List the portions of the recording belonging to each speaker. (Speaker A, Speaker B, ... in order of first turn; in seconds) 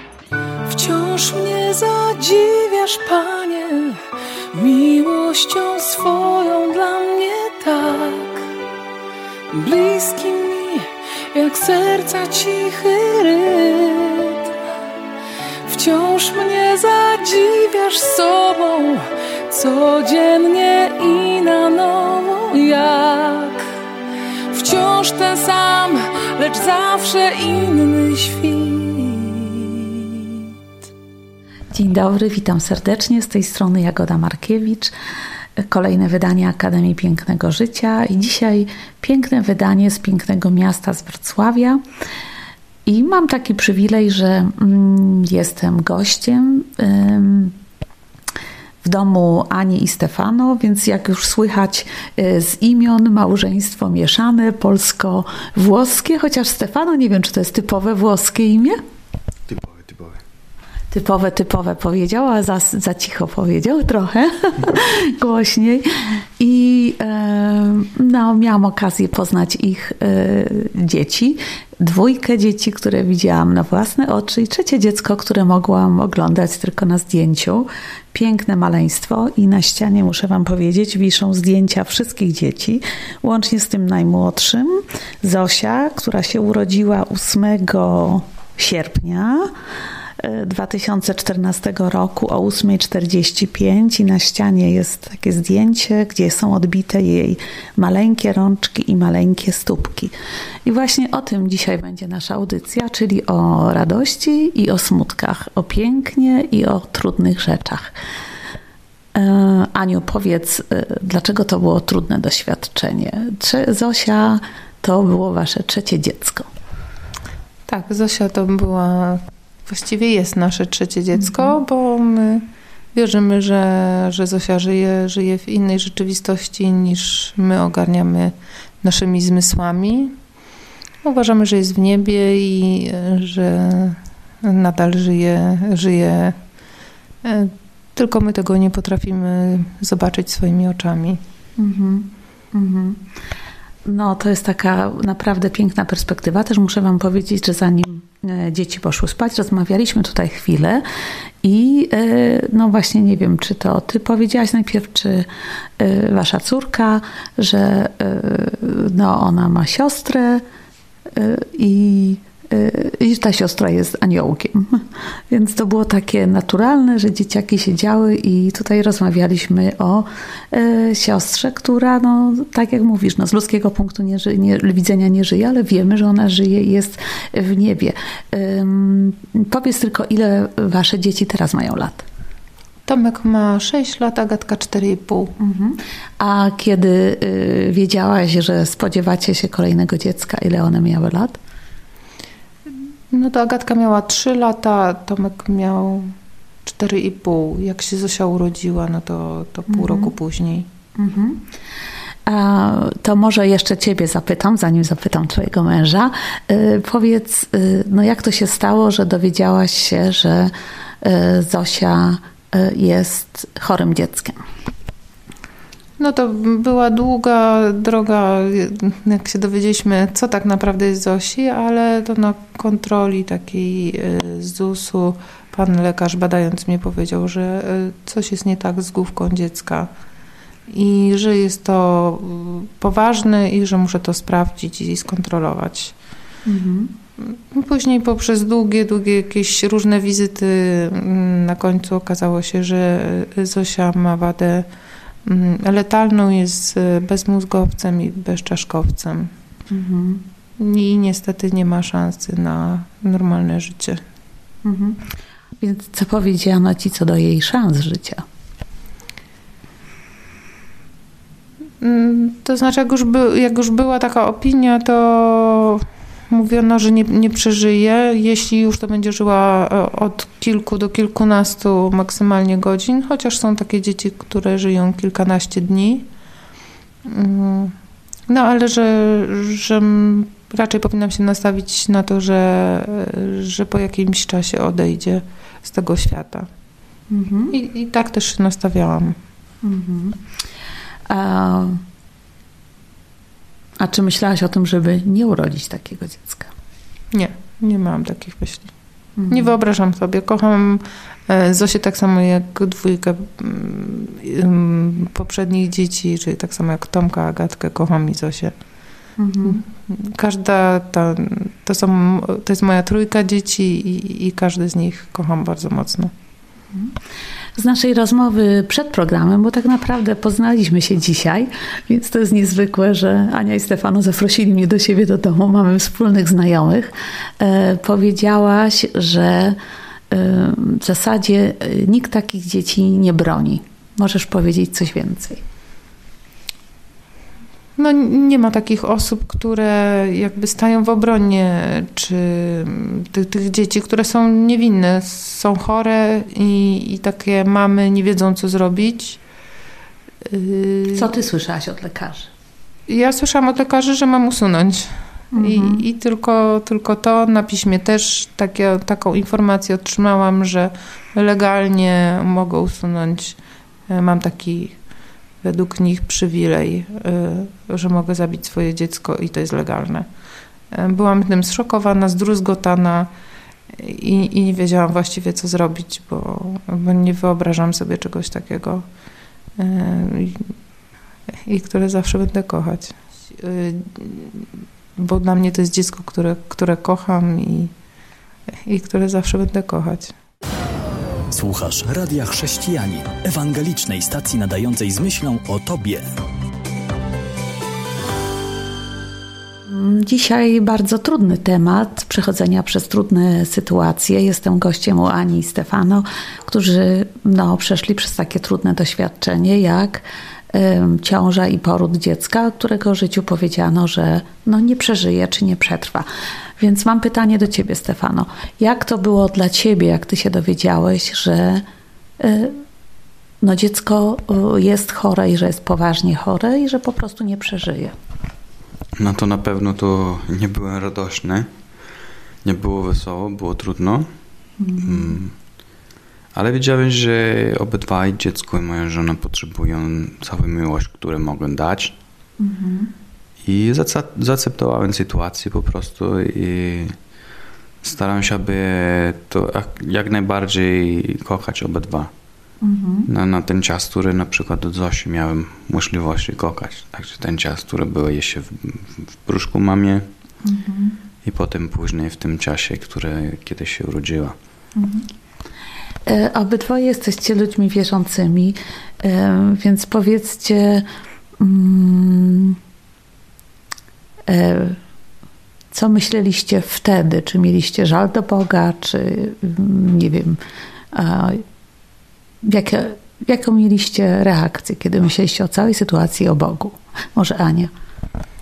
Speaker A: 0.7-4.0, 4.5-8.4, 9.5-14.5, 15.7-23.6, 24.5-30.4
Speaker B: 31.7-34.9, 35.6-41.8, 42.9-47.5, 48.8-58.8, 60.9-89.5, 90.2-100.1, 100.6-107.9, 109.1-116.5, 121.2-121.5, 141.6-143.0, 143.8-150.8, 151.4-155.3, 155.8-160.4, 161.1-182.0, 185.4-191.4, 199.7-200.1, 200.9-201.5, 202.3-214.4, 236.4-236.9, 249.7-250.2, 254.6-255.0, 255.6-258.2, 287.1-287.5, 289.6-290.2, 291.1-291.8, 293.8-296.5, 299.2-299.5, 309.2-309.6, 317.6-329.6, 330.1-335.4, 350.9-352.3, 355.3-355.8, 399.6-416.1, 416.6-421.6, 422.2-422.6, 423.4-427.9, 434.6-435.2, 442.4-442.9, 452.6-453.1, 460.4-460.9, 464.8-465.0, 466.1-470.9, 471.4-472.6, 474.3-474.8, 475.7-480.4, 480.9-481.4, 482.4-487.7
Speaker C: 59.5-60.2, 429.0-431.5, 432.4-434.1, 434.8-435.3, 436.3-442.0, 443.4-446.9, 447.8-452.1, 453.1-460.1, 461.2-464.4
Speaker D: 117.7-130.1, 131.0-136.4, 137.2-141.2, 182.8-185.3, 193.1-196.1, 196.7-200.7, 216.0-229.9, 230.7-235.9, 237.2-244.7, 245.2-249.3, 250.6-254.0, 261.8-276.1, 277.0-277.7, 278.3-286.5, 287.5-289.2, 297.1-298.7, 299.3-308.5, 309.4-316.1, 337.8-349.2, 350.2-351.0, 352.9-363.4, 363.9-364.8, 365.4-370.1, 370.7-373.1, 373.7-378.8, 379.6-380.5, 381.4-384.4, 385.0-387.7, 388.6-390.1
Speaker E: 391.3-396.1